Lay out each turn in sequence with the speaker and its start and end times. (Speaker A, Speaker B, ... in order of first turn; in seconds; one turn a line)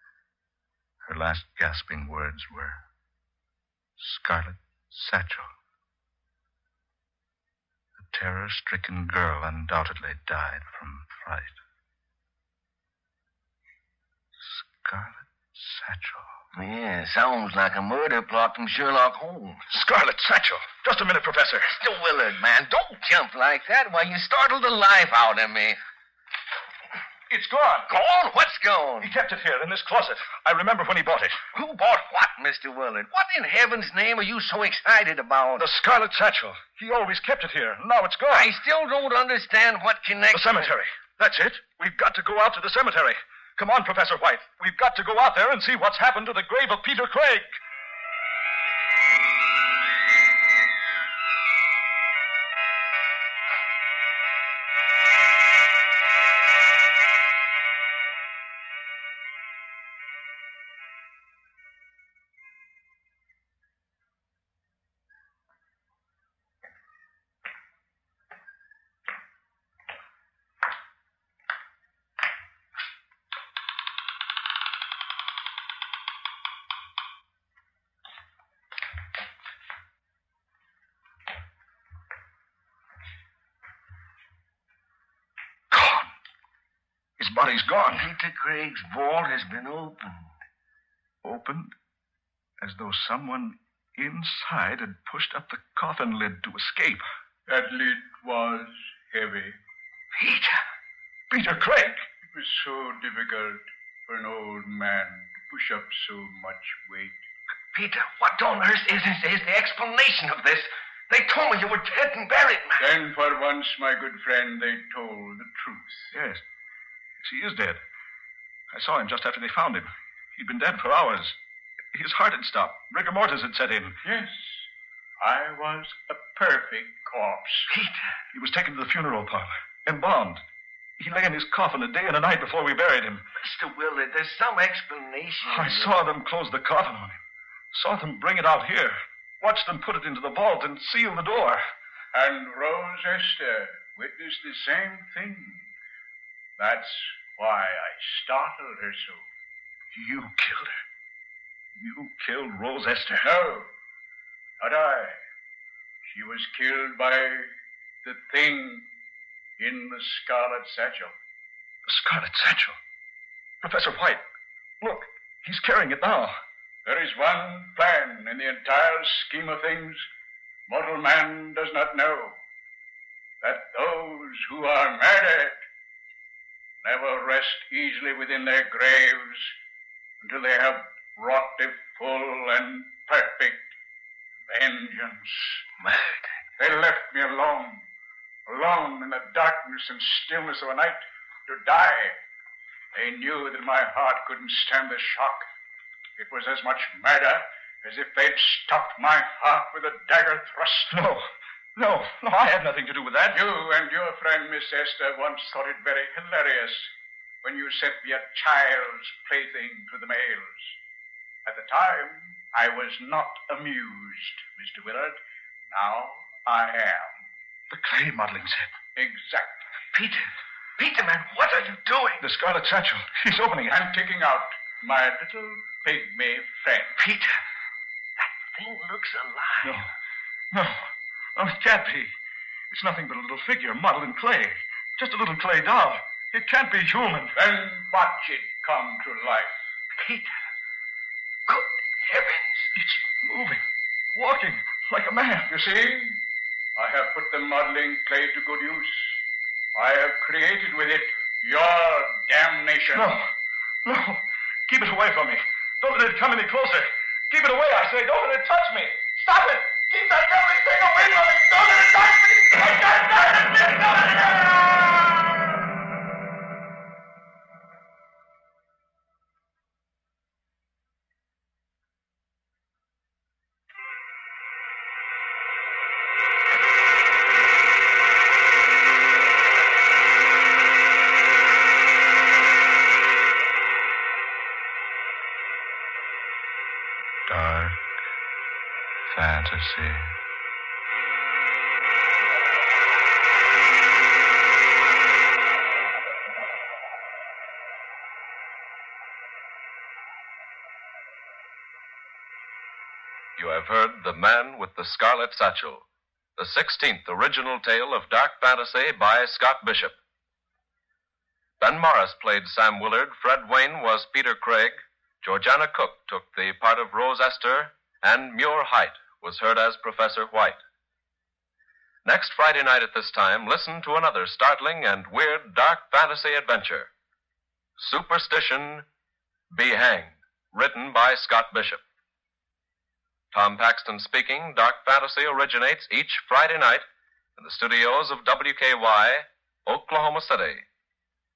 Speaker A: 1.0-2.9
Speaker A: 4.0-5.5
Speaker A: 8.0-11.6
Speaker A: 14.4-16.4
Speaker B: 16.5-19.6
Speaker A: 19.7-21.8
Speaker B: 21.7-25.8
Speaker A: 27.3-27.9
Speaker B: 27.9-29.1
Speaker A: 29.0-31.4
Speaker B: 31.5-35.6
Speaker A: 35.5-38.6
Speaker B: 38.3-40.7
Speaker A: 40.3-47.6
Speaker A: 85.7-86.1
Speaker A: 87.2-88.1
Speaker B: 87.9-90.3
Speaker A: 91.2-91.7
Speaker A: 92.6-97.1
Speaker C: 97.5-99.6
Speaker B: 100.1-100.6
Speaker A: 101.3-102.0
Speaker C: 102.3-107.2
Speaker B: 107.7-112.8
Speaker C: 112.8-116.1
Speaker A: 116.1-116.4
Speaker A: 117.2-117.8
Speaker A: 118.7-121.4
Speaker A: 121.9-124.0
Speaker C: 124.0-124.7
Speaker C: 125.2-127.7
Speaker B: 127.7-128.1
Speaker A: 128.3-130.4
Speaker A: 131.0-133.2
Speaker B: 133.4-135.9
Speaker A: 135.4-137.2
Speaker A: 137.7-141.6
Speaker C: 142.1-145.7
Speaker C: 146.6-149.3
Speaker A: 149.9-150.8
Speaker A: 151.8-153.3
Speaker C: 153.2-153.7
Speaker C: 154.6-155.2
Speaker C: 156.0-157.5
Speaker C: 158.0-158.9
Speaker C: 159.6-161.1
Speaker A: 161.8-162.8
Speaker A: 163.6-164.2
Speaker A: 164.8-166.4
Speaker C: 166.8-170.1
Speaker C: 170.7-172.4
Speaker C: 173.4-175.6
Speaker C: 176.8-179.5
Speaker C: 180.2-183.7
Speaker C: 184.5-185.6
Speaker B: 185.8-186.3
Speaker C: 186.6-187.8
Speaker C: 188.5-192.2
Speaker C: 192.9-195.5
Speaker C: 196.2-200.9
Speaker A: 200.9-203.4
Speaker C: 203.3-206.9
Speaker C: 207.4-210.8
Speaker C: 211.4-215.2
Speaker C: 215.7-217.2
Speaker A: 217.7-218.7
Speaker C: 218.9-219.7
Speaker B: 219.9-222.2
Speaker A: 222.2-223.8
Speaker C: 223.7-227.0
Speaker B: 227.0-227.4
Speaker B: 228.2-229.8
Speaker A: 229.6-229.9
Speaker A: 230.5-232.1
Speaker A: 232.7-237.3
Speaker C: 237.3-239.6
Speaker B: 240.0-240.4
Speaker B: 241.5-242.7
Speaker A: 242.7-243.6
Speaker A: 244.1-245.5
Speaker C: 245.5-246.2
Speaker C: 246.8-249.2
Speaker C: 249.7-253.1
Speaker A: 252.9-253.3
Speaker A: 253.8-265.5
Speaker A: 287.3-287.8
Speaker A: 289.1-290.1
Speaker D: 303.4-310.0
Speaker D: 311.6-320.6
Speaker D: 322.0-326.9
Speaker D: 327.8-328.9
Speaker D: 329.5-331.8
Speaker D: 333.3-340.6